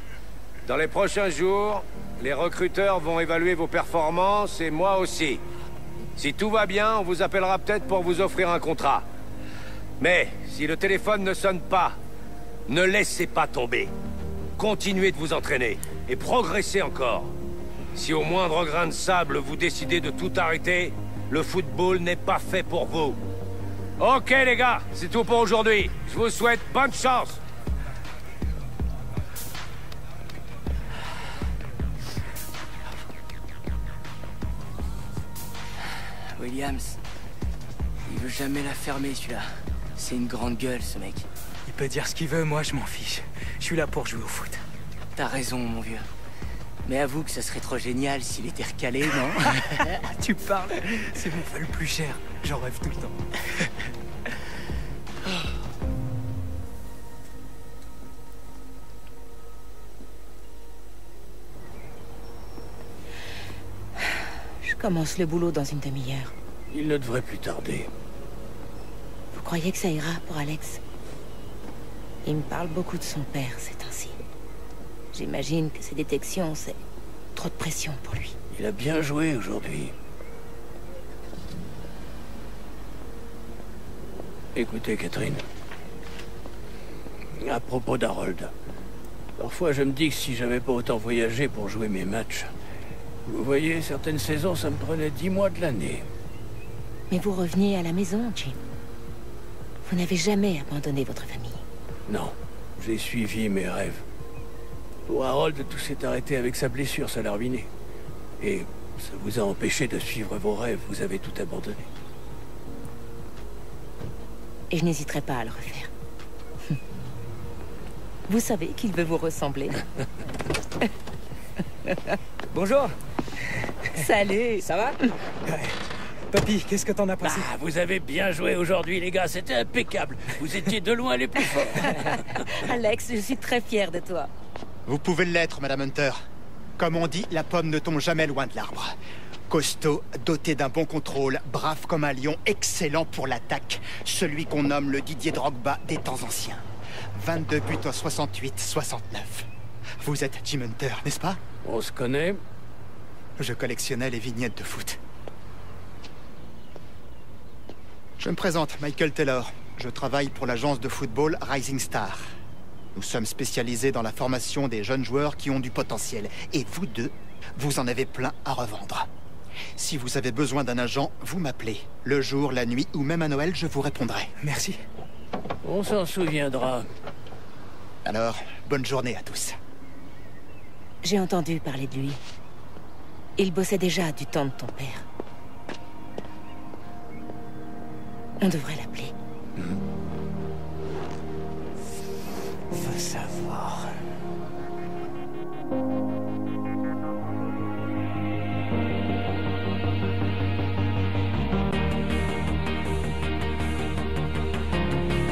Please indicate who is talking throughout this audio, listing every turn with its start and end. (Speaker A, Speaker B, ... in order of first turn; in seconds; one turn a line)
Speaker A: 0.7-5.4
Speaker A: 6.2-9.1
Speaker A: 10.0-12.0
Speaker A: 12.7-13.9
Speaker A: 14.6-17.3
Speaker A: 17.9-23.2
Speaker A: 24.0-27.4
Speaker B: 36.3-37.0
Speaker B: 38.1-41.3
Speaker C: 41.7-44.6
Speaker B: 45.2-46.1
Speaker B: 46.9-49.8
Speaker C: 50.0-53.2
Speaker D: 64.6-66.3
Speaker E: 66.7-67.9
Speaker D: 69.3-70.8
Speaker D: 72.2-74.2
Speaker D: 75.1-76.8
Speaker D: 77.3-78.3
Speaker E: 78.5-80.0
Speaker E: 84.5-85.4
Speaker E: 87.4-88.5
Speaker E: 89.4-92.5
Speaker E: 93.3-96.1
Speaker D: 97.1-98.6
Speaker D: 99.8-101.6
Speaker E: 102.1-104.0
Speaker E: 105.1-107.7
Speaker E: 108.4-111.9
Speaker D: 114.7-115.9
Speaker D: 118.3-119.8
Speaker C: 122.5-122.9
Speaker D: 123.9-124.8
Speaker C: 125.5-125.8
Speaker C: 126.3-127.5
Speaker E: 127.2-132.0
Speaker D: 131.9-134.3
Speaker F: 134.9-136.2
Speaker F: 136.8-138.9
Speaker F: 139.5-146.6
Speaker F: 147.2-149.5
Speaker F: 150.0-151.4
Speaker E: 151.6-152.4
Speaker F: 153.4-155.0
Speaker F: 158.2-162.2
Speaker F: 162.9-169.1
Speaker F: 169.8-174.3
Speaker C: 174.4-174.8
Speaker E: 175.6-176.9
Speaker F: 178.0-179.6
Speaker D: 181.0-182.2
Speaker D: 183.4-185.1
Speaker D: 188.4-189.1
Speaker E: 192.8-193.8